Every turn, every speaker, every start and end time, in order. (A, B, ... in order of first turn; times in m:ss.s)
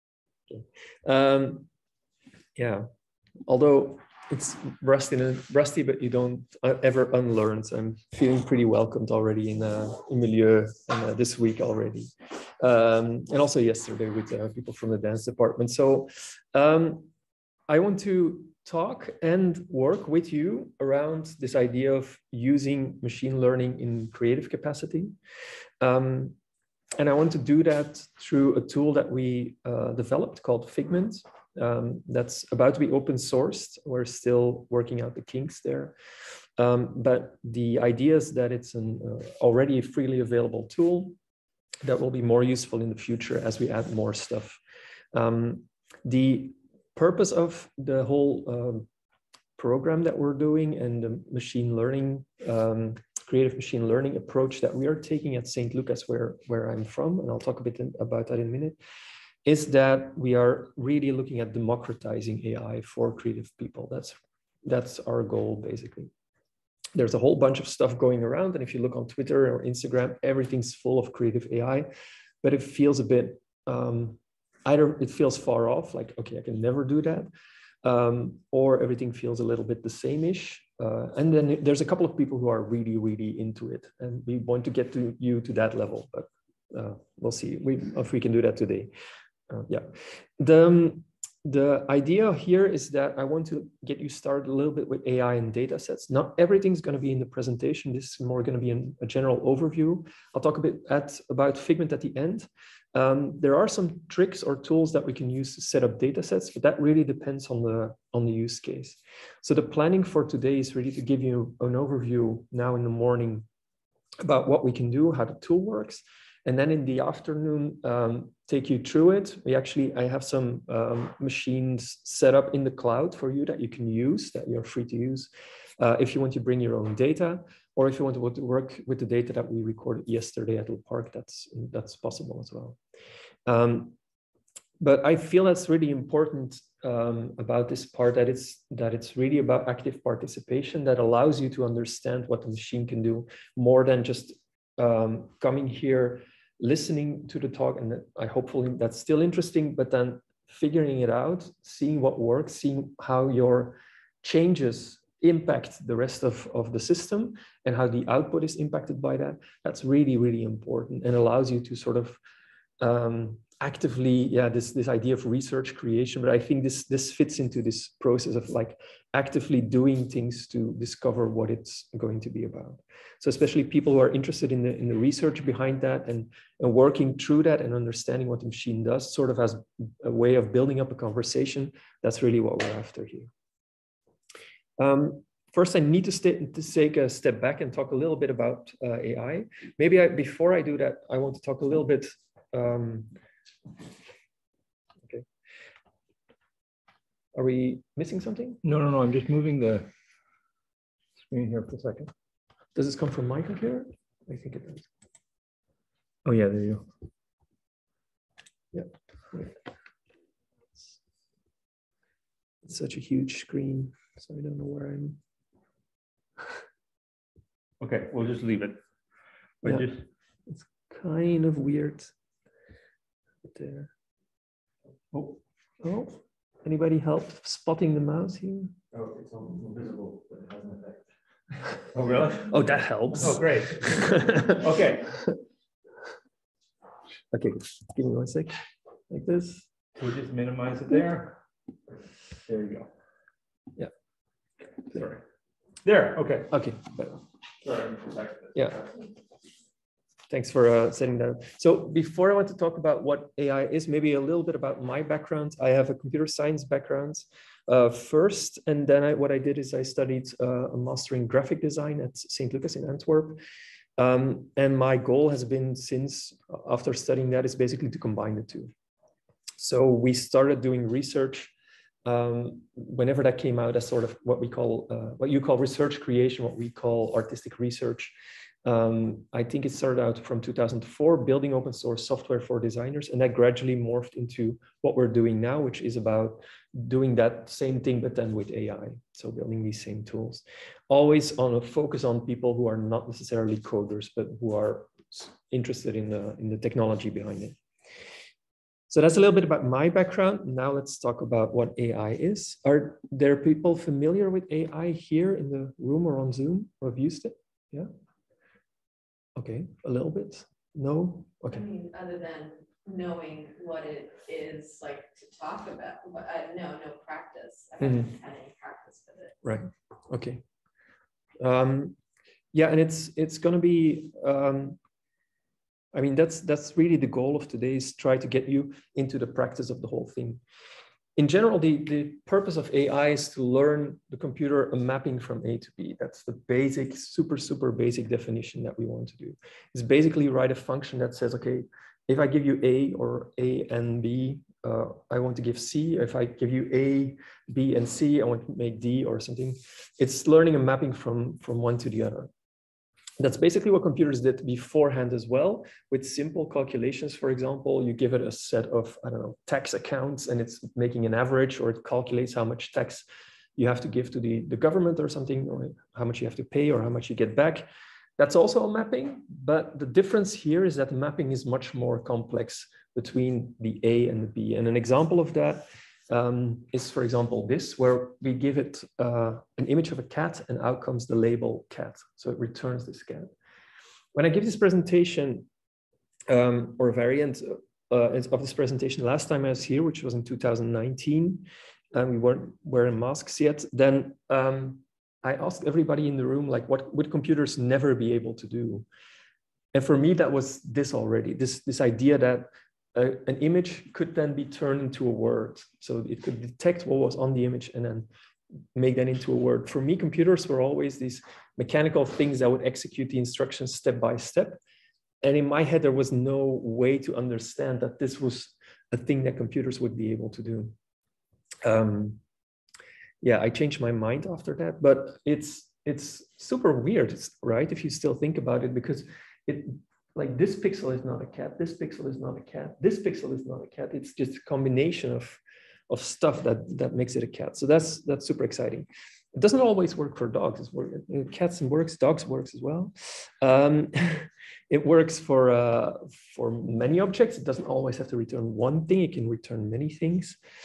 0:00.5-0:01.7 A
0:02.6-0:02.9 A
0:03.5-0:17.1 A
0:17.7-0:25.1 A
0:25.8-0:26.4 A
0:27.0-0:36.0 A
0:36.6-0:41.2 A
0:41.8-0:44.6 A
0:45.1-0:48.9 A
0:49.6-0:58.8 A
0:59.4-1:06.1 A
1:07.0-1:11.9 A
1:12.4-1:17.3 A
1:17.8-1:28.9 A
1:29.5-1:53.5 A
1:54.2-2:12.8 A
2:13.5-2:14.0 A
2:14.8-2:42.2 A
2:42.8-3:03.3 A
3:04.8-3:13.1 A
3:17.4-3:18.6 A
3:18.6-3:19.9 B
3:21.2-3:22.1 B
3:22.8-3:24.9 A
3:26.2-3:26.8 B
3:28.7-3:29.6 A
3:32.6-3:35.2 A
3:37.8-3:38.8 B
3:39.6-3:40.1 B
3:40.5-3:42.1 A
3:43.5-3:43.9 A
3:45.8-3:48.7 A
3:48.9-3:51.0 C
3:51.9-3:52.5 B
3:52.5-3:54.6 A
3:53.2-3:55.2 B
3:57.3-3:58.6 A
3:59.1-3:59.7 A
4:00.0-4:01.4 B
4:02.4-4:02.9 B
4:04.9-4:05.2 B
4:05.8-4:06.5 B
4:06.5-4:07.2 A
4:07.6-4:08.9 B
4:10.3-4:23.4 A
4:24.0-4:28.7 A
4:29.6-4:31.5 A
4:32.0-4:38.1 A
4:38.6-4:57.6 A
4:58.9-5:07.9 A
5:09.4-5:11.6 A
5:11.5-5:19.4 D
5:17.8-5:18.1 A
5:19.4-5:20.4 A
5:21.4-5:22.0 A
5:22.5-5:24.8 A
5:25.9-5:30.4 A
5:31.2-5:52.3 A
5:53.2-6:03.1 A
6:03.6-6:23.3 A
6:24.2-6:25.5 A
6:26.3-6:38.9 A
6:39.7-6:48.1 A
6:48.8-6:54.6 A
6:55.2-7:00.8 A
7:01.6-7:02.2 A
7:03.2-7:30.4 A